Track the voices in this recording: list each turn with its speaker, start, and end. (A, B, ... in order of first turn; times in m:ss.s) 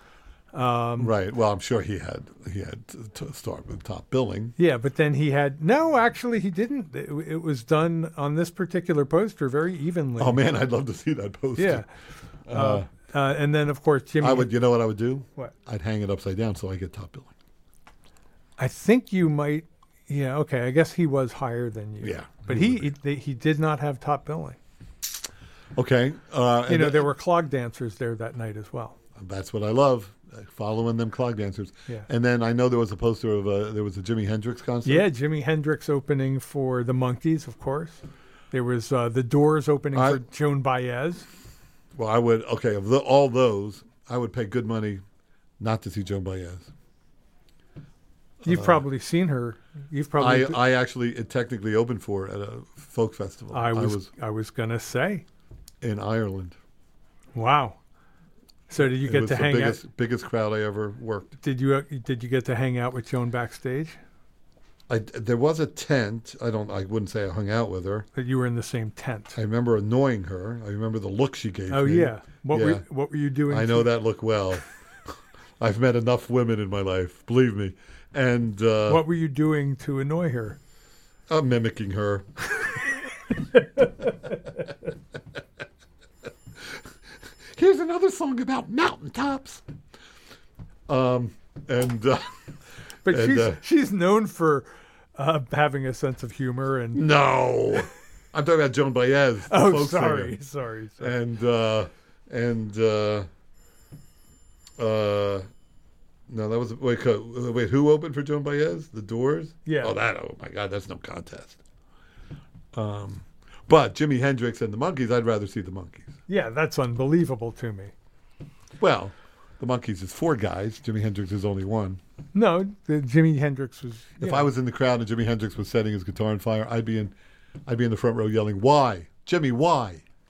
0:00.5-0:01.1 A
0:01.0-0:04.5 B
0:04.6-0:10.4 A
0:10.2-0:11.8 B
0:11.6-0:11.8 A
0:12.5-0:12.9 B
0:12.5-0:14.5 A
0:14.2-0:17.3 B
0:18.6-0:24.6 A
0:22.0-0:22.9 B
0:25.7-0:27.1 B
0:26.7-0:29.0 A
0:29.1-0:35.0 B
0:34.8-0:41.3 A
0:39.9-0:40.2 B
0:41.9-0:45.0 B
0:45.6-0:46.7 B
0:48.4-0:48.8 B
0:48.4-0:50.6 A
0:50.2-0:54.1 B
0:53.5-0:55.2 A
0:55.8-0:56.6 B
0:57.3-0:57.8 A
0:58.7-0:59.8 A
0:58.8-1:01.3 B
1:01.4-1:04.0 A
1:04.9-1:08.0 B
1:08.1-1:09.4 A
1:09.3-1:12.8 B
1:11.7-1:13.9 A
1:13.5-1:19.0 B
1:18.9-1:20.6 A
1:21.3-1:22.3 B
1:27.5-1:29.6 B
1:30.9-1:32.3 B
1:33.0-1:37.0 A
1:33.0-1:33.6 B
1:36.9-1:40.4 B
1:39.5-1:41.1 A
1:41.0-1:43.3 B
1:44.8-1:45.5 B
1:46.3-1:51.6 B
1:49.6-1:49.9 A
1:52.7-1:56.1 B
1:56.3-1:57.9 A
1:58.8-2:02.0 B
2:02.3-2:04.5 A
2:04.2-2:07.1 B
2:07.6-2:10.0 B